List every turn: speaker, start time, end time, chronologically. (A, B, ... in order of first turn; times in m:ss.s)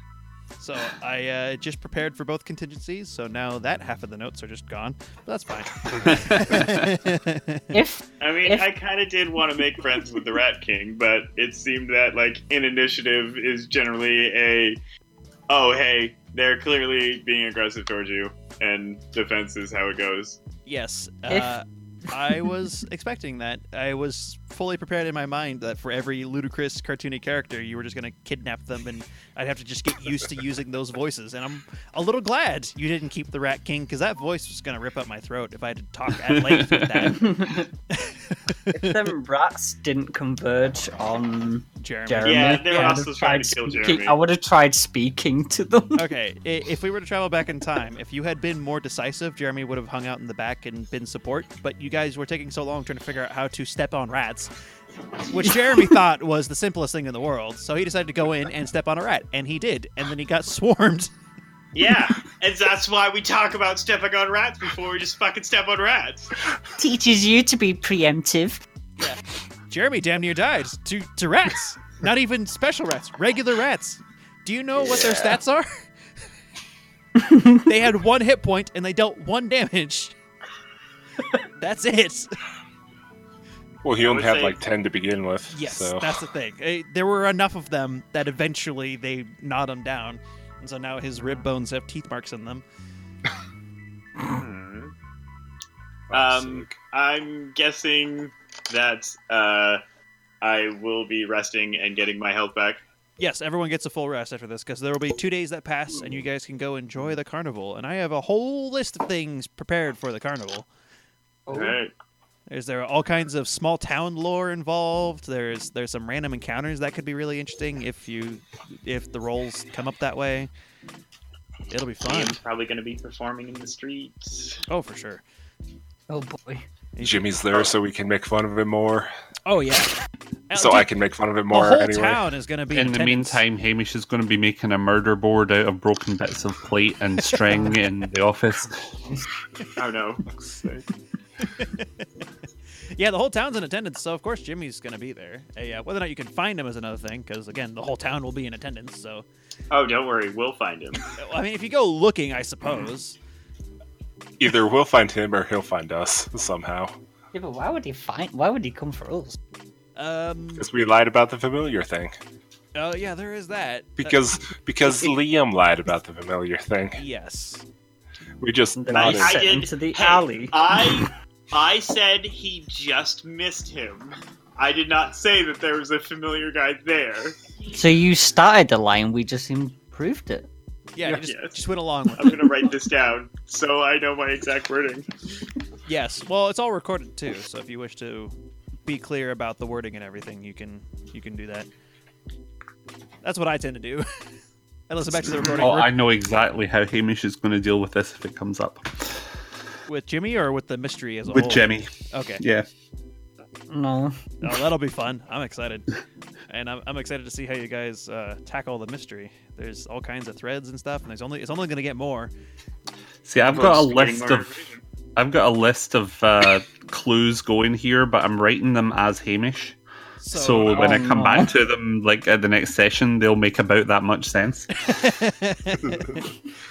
0:00.6-0:07.7 A
0:06.1-0:06.9 B
0:07.7-0:08.6 C
0:08.2-0:14.8 D
0:15.5-0:20.4 D
0:20.6-0:39.2 A
0:21.3-0:21.5 C
0:36.3-0:37.1 B
0:37.1-0:37.7 C
0:38.7-0:46.0 C
0:41.8-0:43.0 A
0:42.2-0:44.2 D
0:45.9-0:54.5 A
0:55.2-1:01.1 A
1:01.7-1:06.3 D
1:06.8-1:08.6 C
1:09.7-1:15.9 A
1:17.2-1:17.6 C
1:17.6-1:20.1 A
1:21.6-1:22.4 A
1:23.8-1:26.2 E
1:24.0-1:24.6 D
1:25.5-1:32.6 A
1:34.2-1:34.9 D
1:36.1-1:36.7 E
1:36.1-1:39.8 D
1:40.4-1:42.8 D
1:43.2-1:50.7 A
1:51.5-1:51.8 C
1:51.5-1:51.9 D
1:52.5-2:00.5 A
2:01.7-2:02.4 A
2:02.0-2:04.6 D
2:04.7-2:05.2 A
2:06.1-2:06.6 C
2:06.9-2:07.4 A
2:07.0-2:09.1 E
2:09.4-2:10.0 A
2:10.5-2:10.9 A
2:10.5-2:12.3 E
2:11.5-2:13.4 A
2:12.7-2:19.0 B
2:19.8-2:20.2 D
2:20.4-2:20.8 E
2:21.4-2:22.0 A
2:22.9-2:29.2 A
2:29.7-2:31.0 D
2:31.1-2:33.2 A
2:34.4-2:36.9 E
2:37.3-2:39.4 C
2:40.0-2:40.7 A
2:40.6-2:42.1 E
2:42.7-2:44.2 A
2:44.0-2:47.0 E
2:47.0-2:47.6 A
2:48.4-2:49.4 E
2:48.8-2:51.1 C
2:48.9-2:57.4 D
2:57.7-3:00.5 C
3:00.9-3:02.5 A
3:01.1-3:01.6 D
3:02.1-3:05.1 D
3:05.8-3:08.3 A
3:08.8-3:11.7 A
3:13.2-3:14.0 A
3:14.9-3:15.9 A
3:15.2-3:19.2 B
3:19.9-3:22.4 A
3:21.3-3:21.9 B
3:22.4-3:22.6 B
3:23.7-3:24.2 C
3:24.4-3:25.9 A
3:26.5-3:32.3 A
3:33.2-3:34.5 B
3:33.5-3:34.8 D
3:35.2-3:39.8 B
3:40.2-3:41.3 A
3:40.3-3:45.0 B
3:40.7-3:41.5 C
3:44.8-3:46.2 A